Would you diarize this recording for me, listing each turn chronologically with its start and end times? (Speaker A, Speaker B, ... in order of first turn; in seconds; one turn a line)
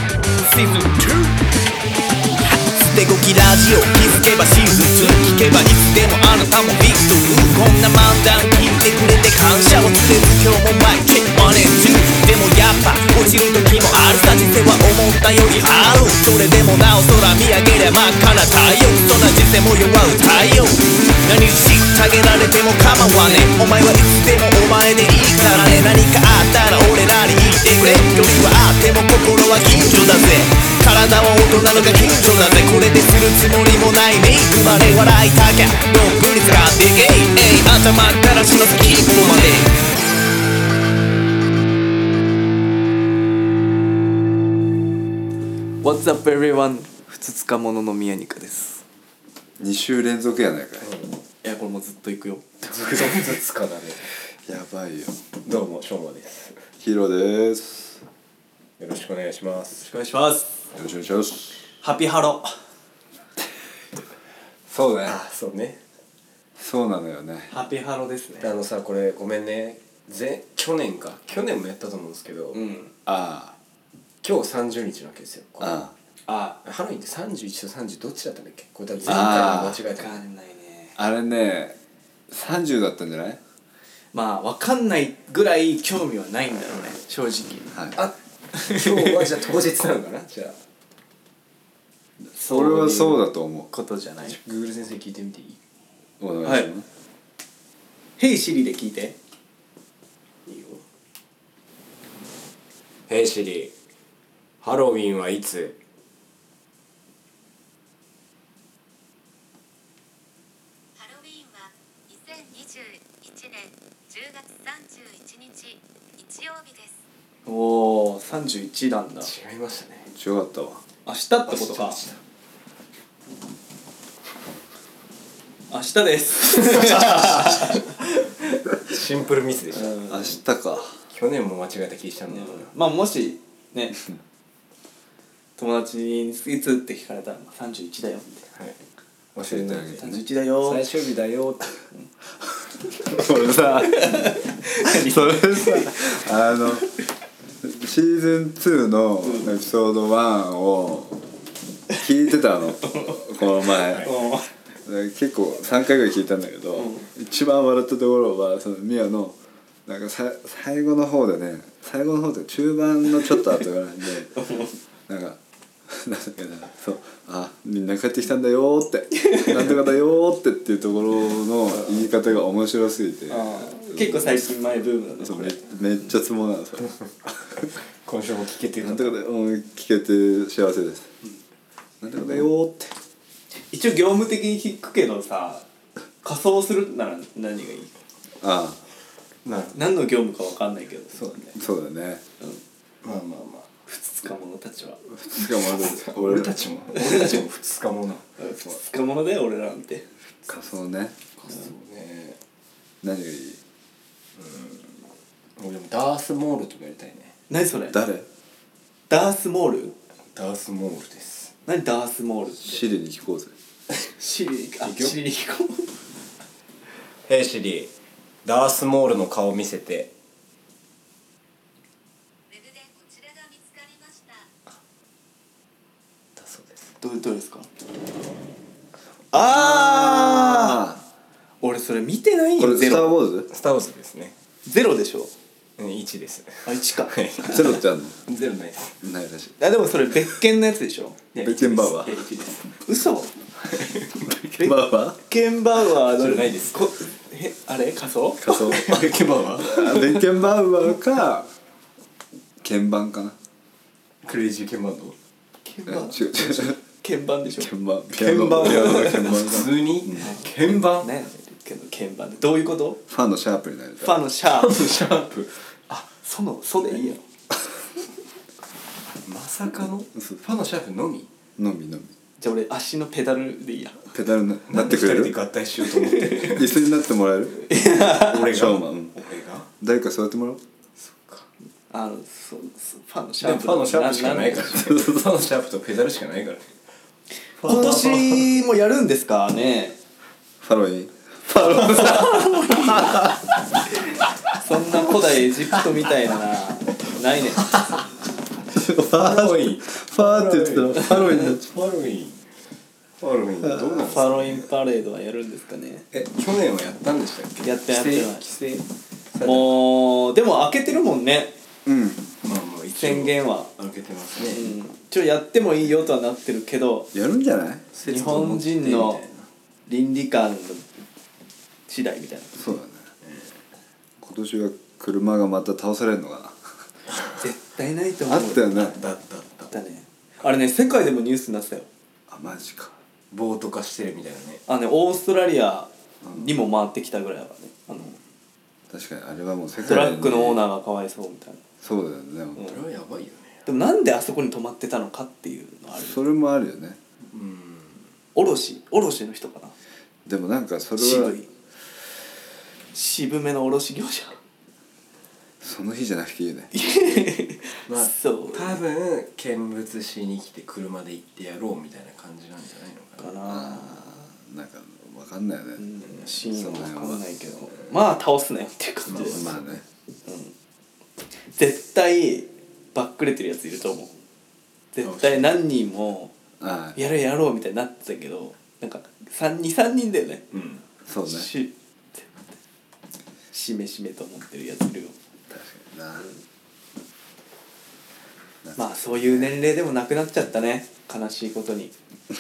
Speaker A: 0.5-1.3
Speaker A: 2.5-39.6
Speaker B: 45.8-48.8
Speaker C: 49.6-50.9
Speaker D: 50.8-51.2
Speaker B: 51.4-52.7
Speaker D: 52.6-54.1
Speaker C: 54.4-55.3
Speaker D: 55.4-56.7
Speaker C: 56.8-58.0
Speaker D: 58.8-59.9
Speaker B: 59.8-60.6
Speaker C: 60.8-61.6
Speaker B: 61.8-62.6
Speaker C: 64.7-65.2
Speaker D: 65.0-65.8
Speaker C: 66.6-67.5
Speaker B: 67.5-68.5
Speaker D: 68.4-72.6
Speaker B: 72.5-72.9
Speaker C: 73.1-73.6
Speaker D: 74.2-75.8
Speaker C: 75.6-75.9
Speaker B: 76.3-76.6
Speaker D: 76.6-80.2
Speaker B: 79.0-81.0
Speaker C: 79.1-79.8
Speaker C: 81.0-81.8
Speaker C: 82.3-83.4
Speaker B: 84.1-87.8
Speaker C: 87.7-88.0
Speaker D: 88.0-90.6
Speaker B: 88.5-89.2
Speaker C: 92.3-93.7
Speaker B: 92.4-94.4
Speaker D: 94.3-95.6
Speaker C: 96.2-96.9
Speaker B: 96.4-96.7
Speaker B: 98.2-99.2
Speaker D: 100.5-100.8
Speaker D: 103.1-103.7
Speaker D: 104.6-105.8
Speaker E: 111.0-117.0
Speaker B: 117.5-119.3
Speaker D: 119.2-120.1
Speaker C: 120.1-120.8
Speaker B: 121.1-122.0
Speaker D: 121.5-122.2
Speaker B: 125.7-128.6
Speaker D: 126.7-127.6
Speaker D: 128.8-130.0
Speaker B: 129.8-130.4
Speaker C: 130.1-131.0
Speaker D: 131.1-132.7
Speaker B: 132.3-134.0
Speaker B: 135.6-138.4
Speaker D: 139.3-141.8
Speaker C: 139.4-140.1
Speaker B: 140.0-140.8
Speaker C: 143.0-146.9
Speaker B: 143.8-146.2
Speaker C: 147.6-151.2
Speaker C: 151.9-154.1
Speaker B: 152.9-153.2
Speaker D: 153.8-154.1
Speaker B: 154.0-154.5
Speaker C: 154.8-164.3
Speaker B: 156.8-157.1
Speaker B: 164.4-164.8
Speaker C: 165.1-174.3
Speaker B: 169.2-169.5
Speaker B: 173.3-175.6
Speaker C: 175.2-177.7
Speaker D: 178.1-179.2
Speaker C: 178.8-181.1
Speaker C: 182.0-182.9
Speaker B: 183.7-185.7
Speaker B: 186.2-187.9
Speaker C: 188.4-188.8
Speaker D: 189.4-189.9
Speaker B: 189.7-191.2
Speaker D: 191.1-191.6
Speaker C: 191.6-192.2
Speaker D: 193.0-193.7
Speaker B: 193.9-195.0
Speaker C: 195.1-196.6
Speaker D: 195.8-198.2
Speaker B: 197.0-197.3
Speaker B: 198.4-200.1
Speaker C: 200.5-201.2
Speaker D: 201.4-202.4
Speaker C: 203.0-203.6
Speaker D: 204.4-205.1
Speaker D: 205.6-207.4
Speaker B: 207.5-208.0
Speaker C: 207.9-208.3
Speaker B: 209.1-209.9
Speaker D: 210.3-211.6
Speaker B: 211.7-212.8
Speaker C: 212.6-213.5
Speaker B: 214.2-215.9
Speaker D: 214.8-215.2
Speaker D: 217.3-217.9
Speaker D: 218.4-220.1
Speaker E: 222.5-224.5
Speaker D: 226.4-226.9
Speaker B: 227.0-227.7
Speaker B: 229.3-230.8
Speaker C: 229.5-231.0
Speaker B: 231.6-233.2
Speaker C: 232.6-233.5
Speaker D: 233.5-234.3
Speaker B: 234.7-235.3
Speaker D: 235.8-237.7
Speaker B: 236.7-237.6
Speaker C: 237.4-238.2
Speaker D: 238.2-239.0
Speaker C: 239.0-239.6
Speaker B: 239.6-241.2
Speaker D: 241.3-242.8
Speaker C: 241.4-242.2
Speaker B: 242.8-243.4
Speaker D: 243.6-244.3
Speaker C: 244.3-245.2
Speaker B: 244.5-248.8
Speaker D: 246.0-247.0
Speaker C: 248.4-249.0
Speaker D: 248.5-250.0
Speaker C: 249.6-251.5
Speaker C: 252.6-253.4
Speaker D: 254.2-255.2
Speaker B: 255.7-257.7
Speaker C: 255.9-256.8
Speaker C: 257.6-260.3
Speaker D: 258.1-261.1
Speaker B: 258.6-259.4
Speaker B: 260.2-263.0
Speaker C: 263.1-264.2
Speaker B: 264.0-264.8
Speaker D: 264.5-266.1
Speaker B: 266.2-267.2
Speaker D: 269.1-271.3
Speaker C: 271.6-272.1
Speaker B: 272.4-274.1
Speaker C: 274.1-275.4
Speaker D: 274.7-276.8
Speaker B: 276.1-276.4
Speaker C: 276.4-277.7
Speaker B: 277.7-278.5
Speaker D: 278.1-279.7
Speaker C: 278.4-279.2
Speaker C: 279.8-280.6
Speaker D: 281.0-281.5
Speaker B: 281.9-284.9
Speaker D: 283.4-286.7
Speaker D: 287.6-288.5
Speaker B: 287.6-290.0
Speaker C: 290.6-293.4
Speaker B: 291.7-293.2
Speaker B: 294.6-297.7
Speaker D: 297.7-298.1
Speaker C: 298.7-301.7
Speaker D: 298.8-302.5
Speaker D: 303.2-304.7
Speaker C: 303.7-303.9
Speaker B: 304.1-306.1
Speaker D: 306.1-309.8
Speaker B: 307.6-308.5
Speaker B: 309.4-311.6
Speaker C: 311.9-312.3
Speaker D: 312.4-314.7
Speaker B: 313.0-313.7
Speaker B: 314.5-317.1
Speaker C: 317.1-317.9
Speaker D: 317.9-319.5
Speaker B: 318.1-319.2
Speaker B: 319.9-320.9
Speaker B: 321.9-322.7
Speaker C: 322.6-323.1
Speaker D: 323.2-323.6
Speaker C: 324.2-326.7
Speaker D: 327.1-327.4
Speaker B: 327.4-328.9
Speaker C: 328.3-329.0
Speaker D: 328.7-329.7
Speaker B: 329.7-331.9
Speaker C: 332.3-333.0
Speaker D: 333.3-334.6
Speaker B: 334.7-338.2
Speaker C: 336.2-336.5
Speaker C: 338.9-340.6
Speaker B: 339.8-341.6
Speaker C: 341.8-342.8
Speaker D: 342.6-343.7
Speaker B: 343.7-346.2
Speaker C: 346.0-347.0
Speaker D: 347.3-348.1
Speaker B: 348.4-349.7
Speaker C: 350.2-351.4
Speaker B: 351.0-351.5
Speaker B: 352.9-354.4
Speaker C: 355.6-356.7
Speaker B: 356.7-358.8
Speaker D: 357.9-363.4
Speaker B: 363.2-364.1
Speaker C: 363.5-367.2
Speaker B: 365.8-369.5
Speaker D: 369.1-369.7
Speaker C: 369.3-369.8
Speaker B: 370.3-370.5
Speaker B: 371.5-374.1
Speaker B: 374.9-376.3
Speaker D: 375.0-375.6
Speaker C: 376.6-377.0
Speaker B: 377.0-380.4
Speaker D: 380.5-380.8
Speaker C: 381.1-381.5
Speaker B: 381.3-382.5
Speaker B: 383.5-385.1
Speaker C: 385.5-386.3
Speaker C: 388.6-389.6
Speaker B: 388.8-391.9